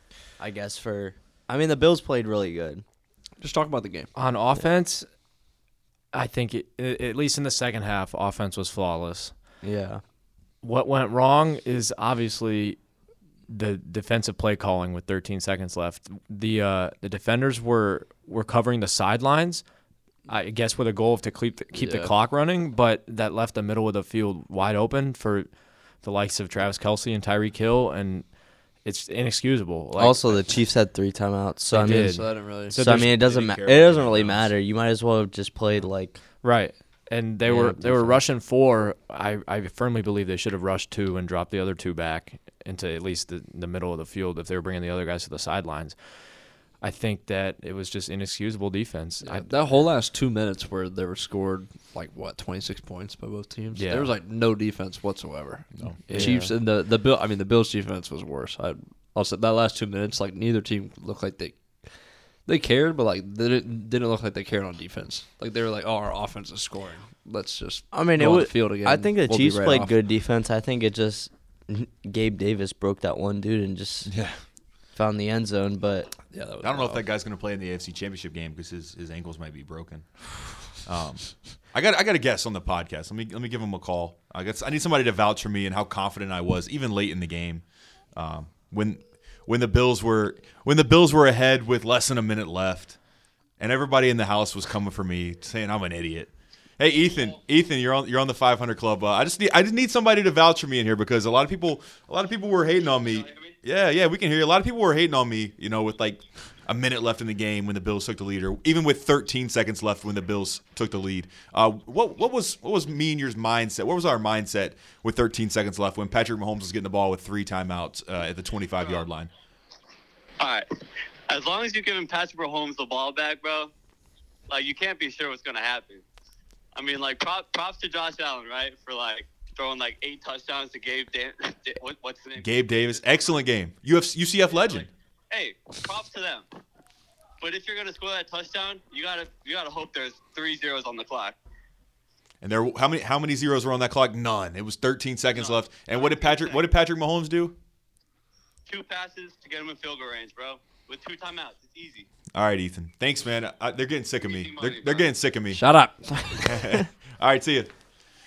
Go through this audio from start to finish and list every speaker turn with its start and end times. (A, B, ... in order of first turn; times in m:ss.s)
0:00.4-0:02.8 A
0:03.4-0:04.1 B
0:04.2-0:05.1 C
0:06.1-0:09.3 C
0:09.6-0:10.0 A
0:10.6-0:12.8 C
0:13.5-0:19.6 C
0:20.3-0:25.5 C
0:21.7-0:22.1 B
0:26.0-0:28.3 C
0:28.8-0:30.6 C
0:30.0-0:36.2 A
0:31.7-0:33.1 C
0:31.8-0:32.8 B
0:32.9-0:34.5 D
0:36.4-0:46.0 C
0:37.4-0:38.2 A
0:46.8-0:49.5 C
0:49.2-1:01.6 B
0:53.8-0:54.1 D
0:55.8-0:56.1 D
0:56.1-0:56.5 C
0:56.1-0:56.5 A
1:02.5-1:10.0 B
1:07.9-1:14.1 A
1:14.1-1:14.4 D
1:15.0-1:16.1 A
1:16.3-1:17.1 B
1:16.6-1:20.1 D
1:20.8-1:27.6 D
1:28.2-1:33.0 D
1:33.6-1:59.3 D
1:42.8-1:43.5 E
2:00.4-2:00.7 E
2:01.3-2:03.7 E
2:04.5-2:06.0 E
2:06.8-2:13.0 E
2:12.4-2:14.9 D
2:14.7-2:16.5 E
2:17.4-2:21.3 E
2:22.4-2:27.6 D
2:25.3-2:26.6 E
2:28.7-2:32.1 E
2:32.4-2:35.6 D
2:34.3-2:35.1 E
2:35.5-2:36.8 B
2:36.4-2:37.7 D